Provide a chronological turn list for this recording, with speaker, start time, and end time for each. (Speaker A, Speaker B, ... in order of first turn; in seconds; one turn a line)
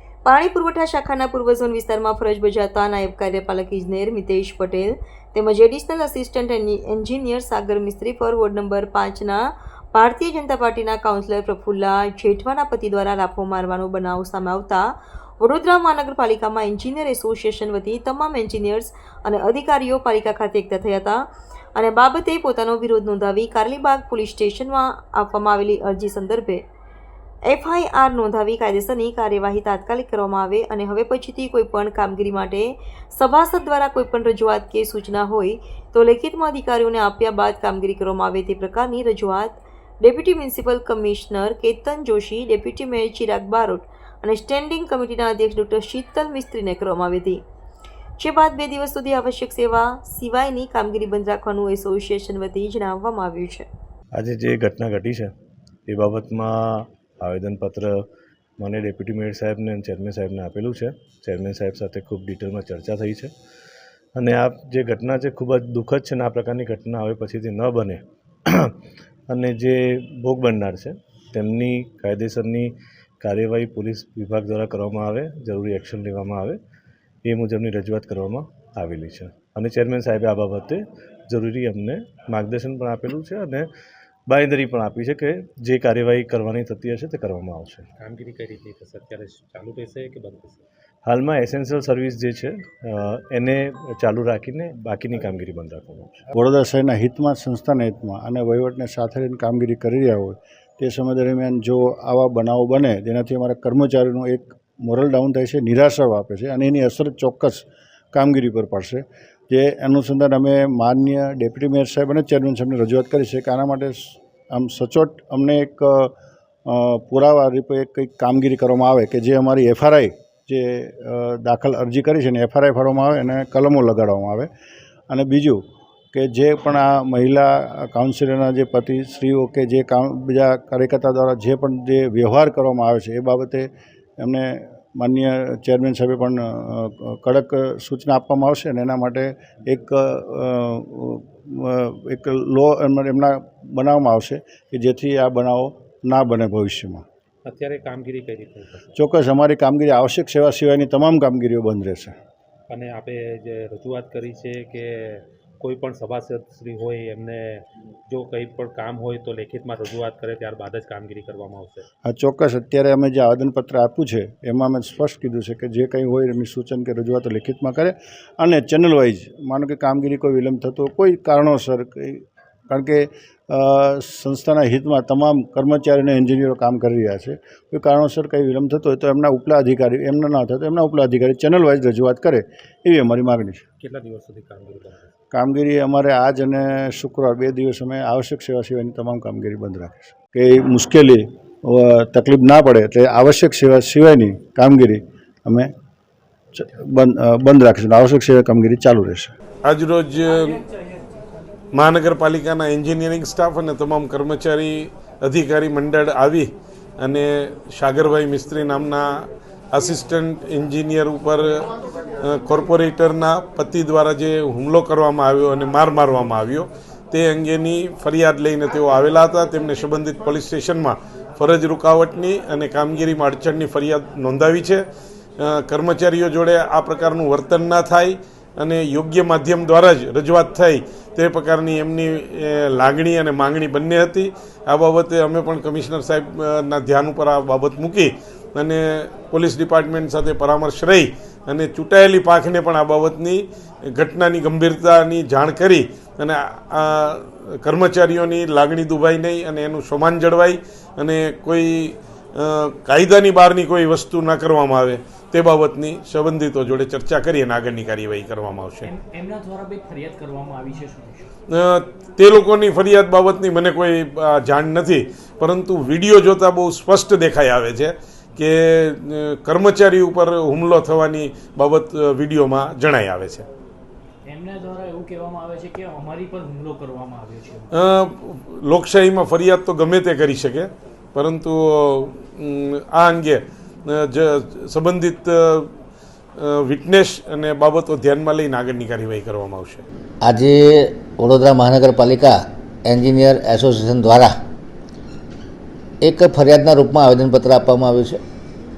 Speaker A: 0.2-9.4
Speaker A: 9.9-21.2
Speaker A: 21.7-26.6
Speaker A: 27.5-47.4
Speaker A: 48.2-53.7
Speaker B: 54.1-55.3
Speaker B: 55.9-58.1
Speaker B: 58.6-63.3
Speaker B: 64.2-68.7
Speaker B: 69.3-76.6
Speaker B: 77.2-83.7
Speaker B: 84.3-87.9
Speaker C: 88.0-90.6
Speaker B: 91.0-96.2
Speaker D: 96.3-116.1
Speaker D: 116.7-124.5
Speaker D: 125.1-125.6
Speaker D: 126.1-147.0
Speaker C: 147.4-148.9
Speaker D: 148.9-152.1
Speaker C: 152.7-161.8
Speaker D: 162.0-183.6
Speaker C: 183.8-185.1
Speaker D: 185.3-195.7
Speaker D: 196.5-199.3
Speaker E: 199.6-200.6
Speaker E: 201.7-211.4
Speaker E: 212.2-224.8
Speaker E: 225.4-258.9
Speaker F: 258.8-261.3
Speaker E: 261.5-273.4
Speaker F: 274.2-277.7
Speaker E: 277.7-285.7
Speaker E: 286.4-289.8
Speaker G: 290.2-294.3
Speaker G: 296.0-298.2